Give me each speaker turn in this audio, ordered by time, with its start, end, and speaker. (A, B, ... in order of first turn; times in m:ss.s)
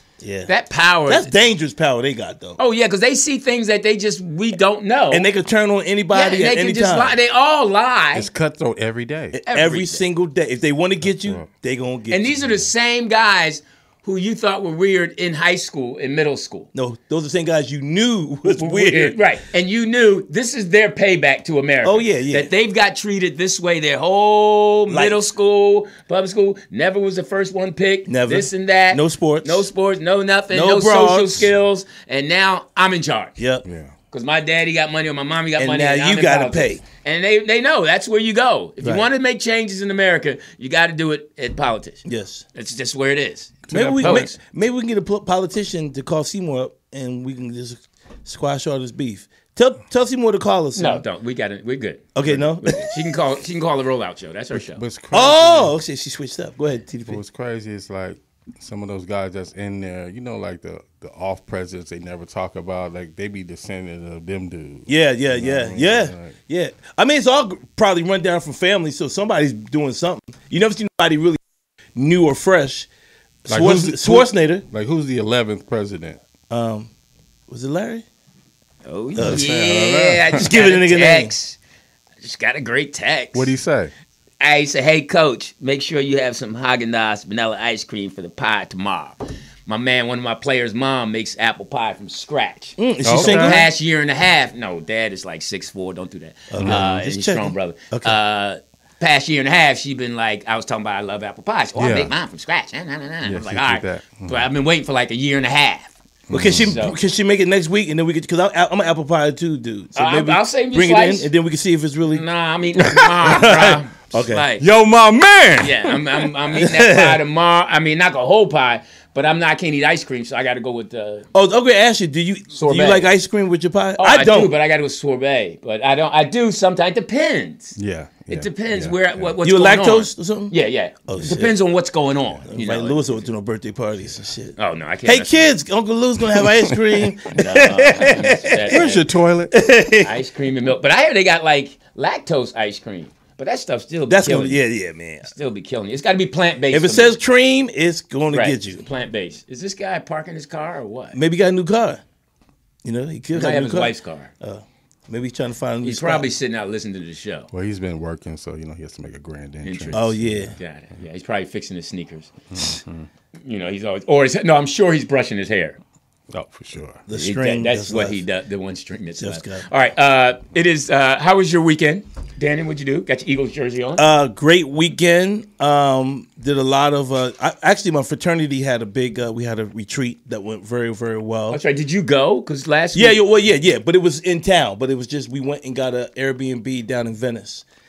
0:00.2-0:00.5 A
0:00.5-0:01.3 B
0:01.1-0:02.6 A
0:02.6-0:05.3 B
0:05.1-0:07.2 A
0:06.1-0:08.3 B
0:08.1-0:09.4 C
0:09.4-0:12.3 A
0:09.5-0:10.0 B
0:11.0-0:11.5 C
0:12.1-0:16.7 B
0:16.8-0:19.2 A
0:18.5-0:33.4 B
0:21.8-0:22.5 A
0:24.9-0:25.2 A
0:28.1-0:29.7 A
0:30.5-0:31.5 A
0:33.4-0:33.6 A
0:33.6-0:33.9 C
0:34.1-0:44.4 B
0:35.6-0:36.8 A
0:38.8-0:39.1 A
0:42.0-0:42.4 A
0:43.7-0:51.0 A
0:43.7-0:44.2 C
0:50.8-0:54.8 B
0:52.2-0:53.1 A
0:54.6-0:55.7 C
0:55.1-0:57.2 A
0:57.1-1:06.4 C
1:04.9-1:11.4 A
1:12.0-1:12.9 A
1:13.4-1:14.6 A
1:13.5-1:16.2 C
1:16.5-1:16.9 A
1:17.5-1:18.1 A
1:18.8-1:21.6 B
1:19.2-1:19.5 A
1:19.2-1:20.5 C
1:20.4-1:21.3 A
1:22.2-1:23.5 B
1:23.3-1:23.9 C
1:24.4-1:46.0 B
1:32.8-1:33.7 A
1:33.0-1:33.6 C
1:36.5-1:38.2 A
1:41.8-1:42.1 C
1:43.2-1:44.5 C
1:46.3-1:46.7 C
1:46.3-1:52.2 A
1:46.5-1:47.0 B
1:50.0-1:51.3 B
1:52.1-1:54.6 B
1:52.8-1:53.4 C
1:53.2-1:54.5 A
1:54.6-1:56.3 C
1:55.6-2:01.3 B
1:56.5-1:57.2 A
2:01.3-2:04.6 A
2:02.5-2:03.1 B
2:04.0-2:07.8 B
2:07.8-2:09.4 C
2:08.3-2:13.3 B
2:09.4-2:11.6 A
2:12.5-2:19.0 A
2:14.6-2:15.5 B
2:17.3-2:19.0 B
2:18.7-2:19.6 C
2:19.5-2:20.2 A
2:20.0-2:24.6 B
2:24.1-2:25.3 A
2:25.2-2:27.2 B
2:26.7-2:28.8 A
2:28.3-2:31.2 B
2:31.1-2:32.0 A
2:32.8-2:36.3 A
2:33.3-2:34.3 B
2:35.8-2:37.5 B
2:37.5-2:40.5 C
2:39.6-2:42.3 B
2:39.9-2:40.6 A
2:42.5-2:43.1 C
2:43.4-2:45.8 B
2:46.3-2:47.0 C
2:47.1-2:48.2 A
2:47.1-2:54.1 B
2:49.2-2:49.7 A
2:54.0-3:01.6 A
3:01.5-3:03.2 B
3:02.9-3:07.6 A